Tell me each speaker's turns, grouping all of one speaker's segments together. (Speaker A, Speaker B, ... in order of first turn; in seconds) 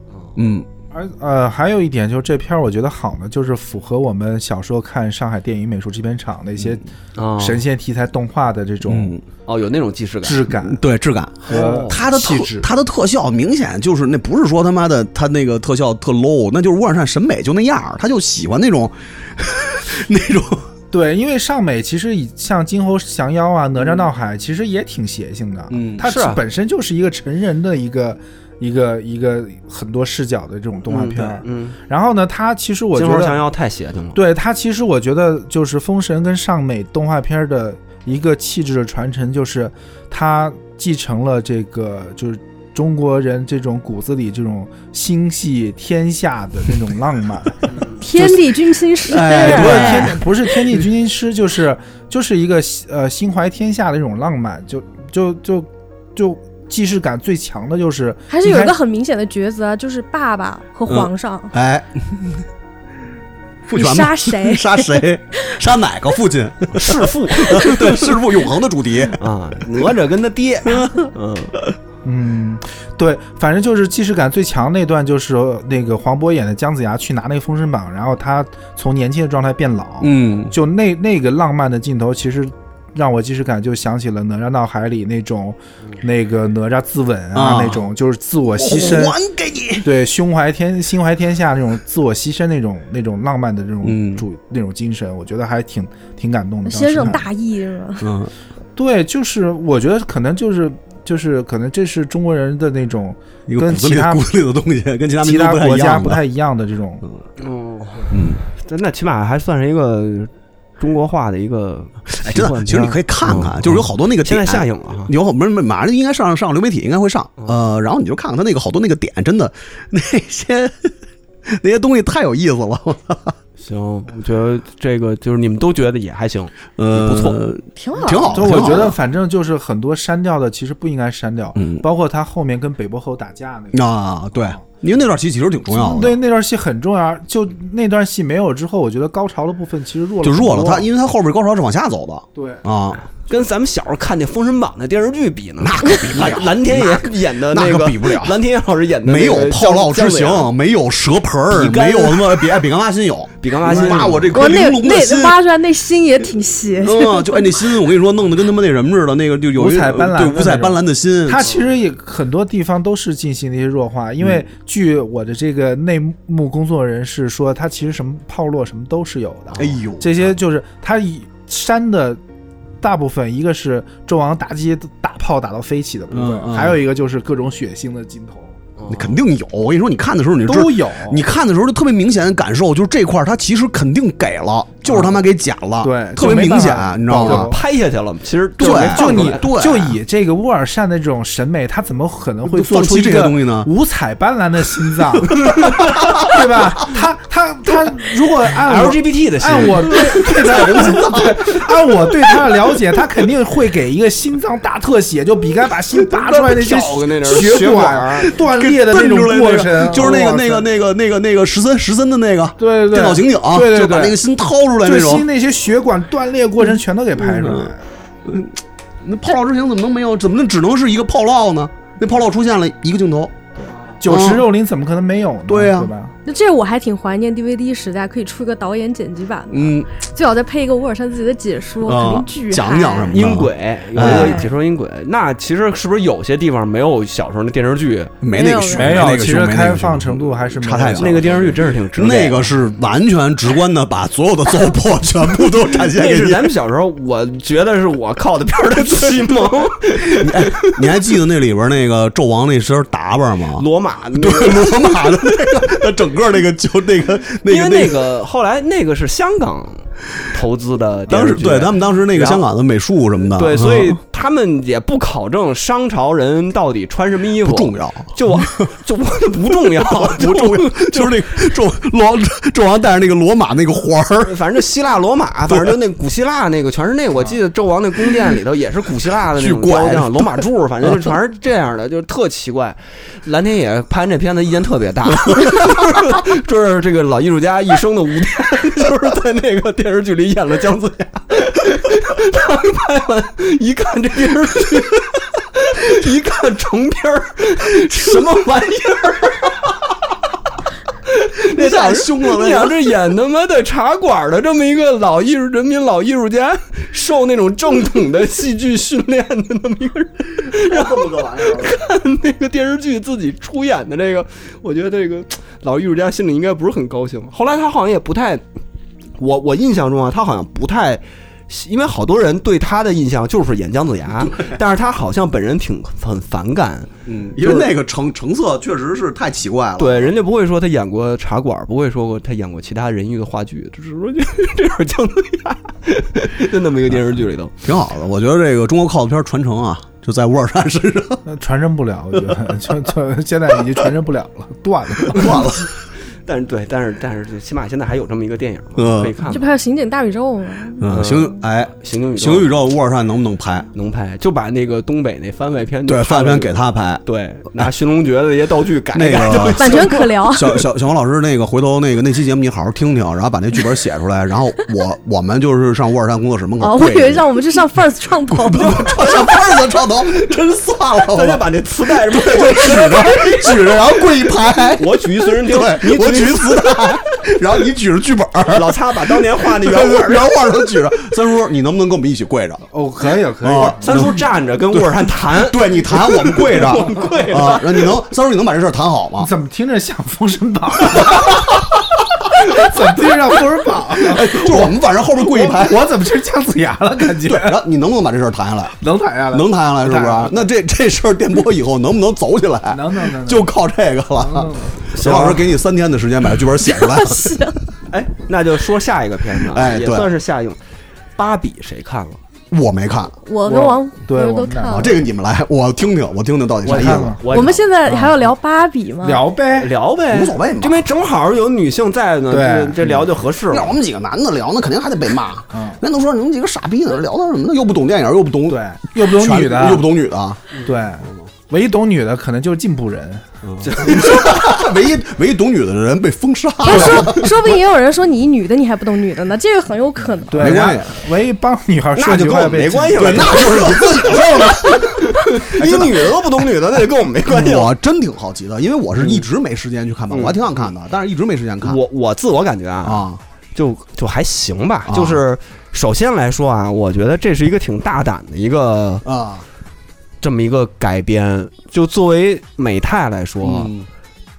Speaker A: 0.4-0.7, 8.9-9.2, 10.6-20.7, 25.7-26.0, 49.1-50.2, 60.9-62.4, 63.7-69.2, 70.7-71.1, 80.0-80.5, 87.3-87.8, 88.6-89.9, 93.8-94.2, 98.0-98.3, 103.5-106.2, 108.1-108.4, 112.2-120.9, 121.5-123.3, 126.8-129.0, 131.6-131.8, 133.7-136.2, 140.2-143.0, 145.6-148.4, 149.1-155.4, 156.8-161.5, 169.6-170.3, 176.1-176.8, 178.9-187.5, 188.6-190.0, 192.5-193.7, 195.4-196.3, 200.0-201.4, 208.4-215.3, 217.2-217.7, 218.3-223.4, 224.1-224.4, 225.5-225.9, 229.5-229.9, 231.8-234.5, 238.2-246.5, 250.2-258.1, 261.1-264.0, 267.4-268.7, 269.6-274.4, 275.5-275.8, 279.3-281.1, 301.5-302.9, 310.4-311.8, 327.1-330.1, 337.6-341.2, 345.1-345.7, 348.8-349.2, 350.8-353.7, 355.9-357.0, 358.9-367.2, 368.3-382.6, 383.4-389.3, 394.0-395.8, 397.2-398.8, 399.3-407.4, 409.4-410.1, 412.5-413.2, 414.6-417.2, 420.1-420.8, 422.8-430.4, 433.4-437.5, 440.4-441.0, 442.9-446.2, 447.3-451.8, 452.8-453.2, 454.9-455.2, 459.1-459.4, 463.4-463.9
Speaker B: 0.9-6.8, 7.4-9.1, 10.2-10.8, 11.5-12.7, 20.9-33.4, 34.1-48.4, 49.1-58.8, 72.0-89.2, 89.8-97.2, 98.8-104.3, 105.2-107.0, 128.3-134.7, 135.7-140.9, 142.3-142.6, 159.6-172.2, 172.8-178.5, 180.4-181.3, 184.9-185.2, 185.8-187.6, 188.6-210.7, 212.6-214.2, 214.8-217.8, 223.6-226.1, 238.7-241.5, 341.3-345.6, 382.7-384.1, 389.2-391.6, 392.3-397.6, 398.8-400.5, 402.7-403.5, 404.2-404.9, 413.5-415.0, 416.7-417.2, 417.9-418.2, 419.0-419.7, 422.3-423.0, 425.5-425.8, 428.5-429.9, 430.6-433.4, 440.3-443.6
Speaker C: 7.2-7.6, 9.5-10.5, 11.5-12.0, 26.0-26.4, 30.9-31.8, 33.0-34.2, 66.7-68.3, 69.1-71.5, 107.4-115.1, 123.6-127.4, 128.4-128.9, 143.2-150.5, 151.5-152.6, 153.4-154.5, 178.8-179.2, 187.1-189.5, 198.6-200.9, 205.9-208.3, 233.1-238.2, 240.9-242.6, 245.5-251.1, 253.6-255.8, 257.5-262.5, 263.3-271.4, 274.2-299.9, 301.1-318.4, 319.2-327.7, 329.8-337.5, 346.3-349.5, 350.9-352.5, 353.7-360.1, 368.7-370.3, 371.0-377.0, 378.5-380.6, 383.6-388.0, 404.9-405.6, 407.9-410.6, 411.2-412.2, 416.6-417.7, 419.6-423.8, 433.6-434.7, 442.0-447.7, 449.0-449.3, 450.1-450.7, 451.6-459.1, 460.2-463.7
Speaker D: 48.0-50.2, 58.3-61.5, 63.7-65.4, 96.7-98.1, 127.8-128.4, 154.3-157.6, 226.2-233.2, 234.0-234.5, 238.3-239.1, 349.3-350.8, 359.6-360.6, 366.6-369.0, 406.6-407.6, 413.2-415.0, 417.3-419.2, 436.6-440.6